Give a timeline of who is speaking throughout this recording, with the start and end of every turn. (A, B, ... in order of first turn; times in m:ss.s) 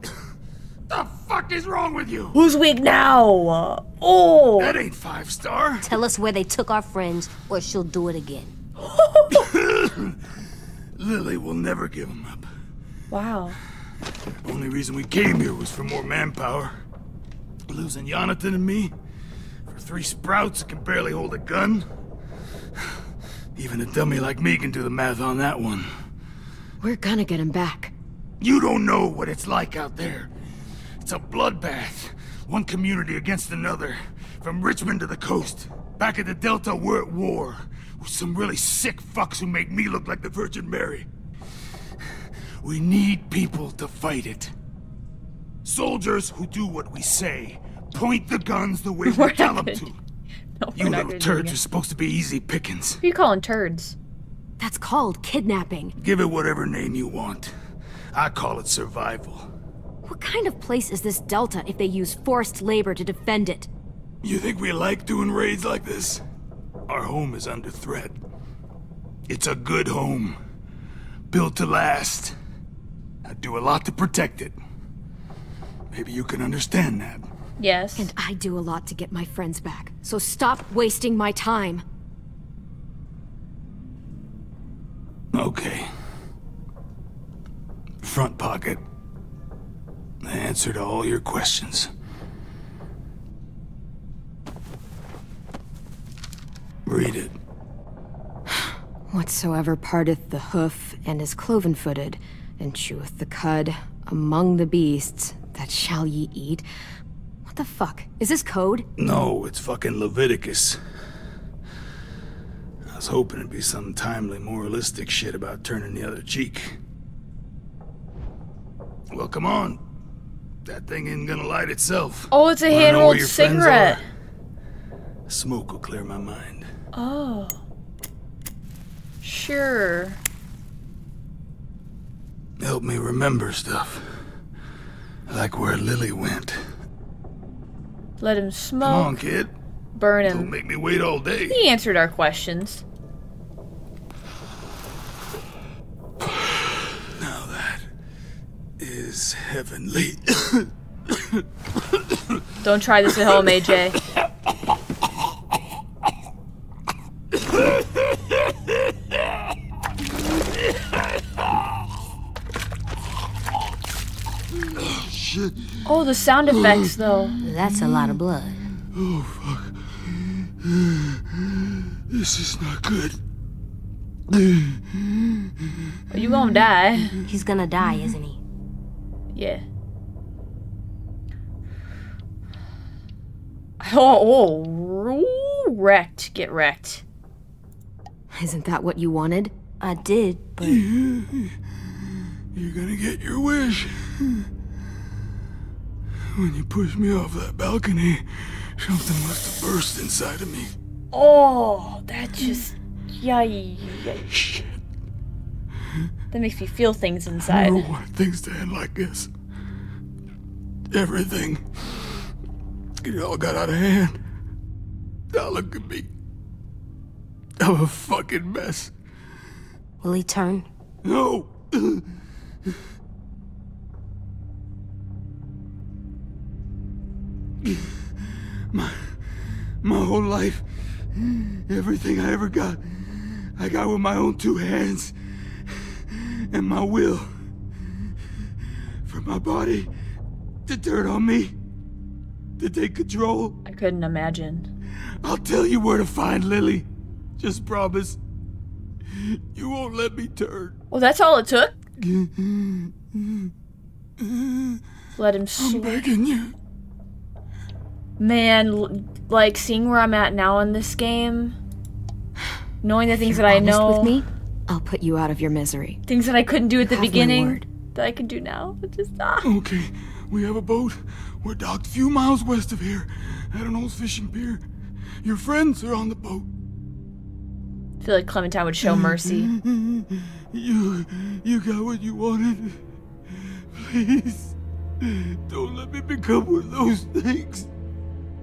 0:00.9-0:02.4 A
0:02.3-0:04.7 B
0:04.6-0:05.9 A
0:05.8-0:08.5 C
0:08.9-0:09.5 B
0:09.3-0:10.2 A
0:11.0-0:12.4 A
0:13.1-0:13.6 B
0:14.4-0:16.7 A
0:17.7-0:18.9 A
0:19.7-0:21.8 A
0:23.6-0:25.9 A
0:26.8-0:27.9 D
0:28.4-0:30.3 A
0:31.0-0:41.0 A
0:42.6-0:44.5 A
0:45.6-0:50.0 A
0:49.0-0:49.8 B
0:50.6-0:51.6 B
0:50.8-0:53.0 A
0:53.0-0:54.0 B
0:54.6-0:55.9 D
0:56.0-0:57.5 A
0:58.1-0:59.5 A
1:00.0-1:03.7 D
1:04.2-1:06.2 A
1:06.9-1:08.2 A
1:09.3-1:10.4 A
1:11.3-1:12.3 A
1:13.2-1:14.5 A
1:15.9-1:17.3 A
1:17.6-1:18.1 B
1:18.0-1:21.8 D
1:25.3-1:25.9 A
1:28.0-1:28.8 A
1:30.2-1:31.9 A
1:36.8-1:37.4 A
1:38.5-1:46.6 D
1:47.4-1:48.9 D
1:49.0-1:50.8 A
1:52.9-1:56.8 A
1:59.1-1:59.8 A
2:00.6-2:04.0 A
2:02.3-2:04.0 B
2:05.3-2:06.7 A
2:06.9-2:07.6 B
2:09.2-2:10.2 B
2:12.6-2:14.2 A
2:15.3-2:16.6 A
2:18.2-2:19.2 B
2:18.8-2:19.5 A
2:19.9-2:20.5 B
2:20.3-2:21.6 A
2:21.5-2:22.8 B
2:27.2-2:27.9 A
2:28.8-2:31.4 A
2:32.6-2:34.0 B
2:44.9-2:45.7 A
2:45.8-2:47.4 B
2:47.4-2:48.6 C
2:48.9-2:53.2 A
2:54.3-2:55.3 A
2:56.1-2:57.1 B
2:57.2-2:58.4 C
2:59.3-2:59.6 B
3:03.8-3:07.0 B
3:08.3-3:09.5 D
3:09.8-3:10.9 C
3:10.6-3:11.5 A
3:12.5-3:14.4 A
3:16.3-3:20.7 A
3:21.1-3:24.2 B
3:24.3-3:24.7 A
3:26.3-3:27.9 B
3:27.4-3:29.3 A
3:30.9-3:31.6 A
3:33.0-3:34.2 A
3:35.3-3:36.1 A
3:37.6-3:38.9 A
3:40.0-3:40.7 C
3:41.0-3:42.0 A
3:47.6-3:47.9 A
3:48.7-3:57.4 A
3:59.0-3:59.9 A
4:00.6-4:01.5 A
4:02.6-4:03.5 A
4:03.6-4:04.7 B
4:05.2-4:06.9 A
4:07.4-4:08.2 A
4:09.1-4:10.7 A
4:10.9-4:11.8 B
4:12.0-4:13.5 A
4:14.2-4:14.8 A
4:15.2-4:16.1 B
4:15.6-4:16.5 A
4:18.2-4:21.6 B
4:22.8-4:24.1 B
4:23.1-4:26.0 D
4:26.1-4:29.5 B
4:26.8-4:27.6 D
4:29.4-4:34.6 A
4:35.2-4:36.4 A
4:38.0-4:39.5 B
4:38.8-4:42.8 A
4:43.7-4:47.7 A